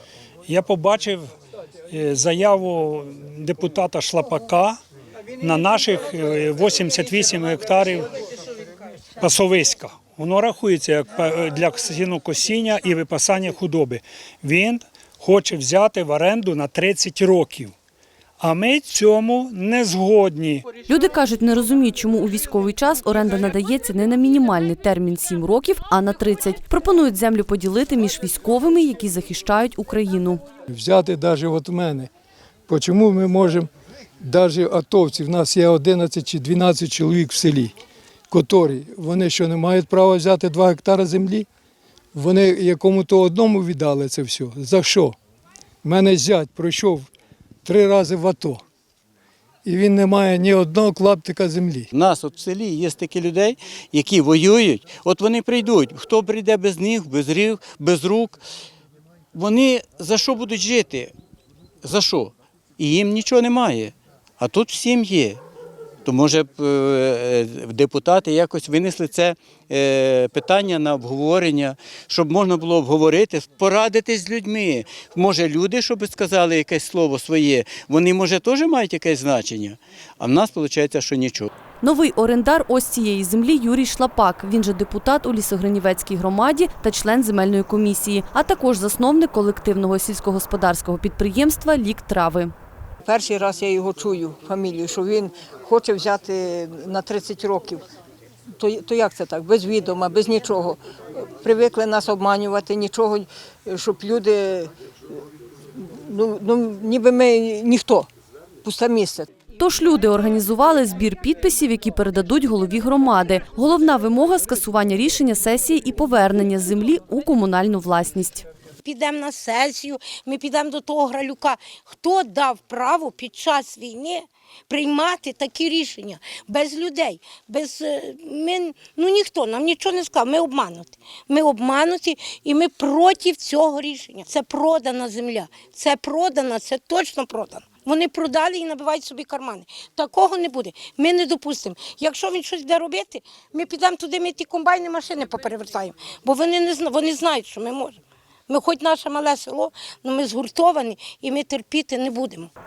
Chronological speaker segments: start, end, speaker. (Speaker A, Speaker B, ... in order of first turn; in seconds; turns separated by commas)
Speaker A: 0.5-1.3, Speaker A: 1.9-4.8, Speaker A: 5.4-8.1, Speaker A: 9.2-17.7, Speaker A: 18.4-20.6, Speaker B: 20.9-30.4, Speaker C: 30.7-32.1, Speaker C: 32.7-33.7, Speaker C: 34.2-37.7, Speaker C: 38.3-41.5, Speaker C: 42.1-45.1, Speaker C: 45.8-47.1, Speaker C: 47.6-48.6, Speaker C: 49.6-51.9, Speaker D: 51.9-58.4, Speaker D: 59.3-61.1, Speaker D: 61.8-65.4, Speaker D: 66.0-81.5, Speaker B: 81.8-92.5, Speaker E: 93.0-97.8, Speaker E: 98.6-104.7, Speaker E: 105.7-108.1, Speaker E: 108.6-109.3, Speaker B: 109.6-118.5, Speaker F: 118.8-152.5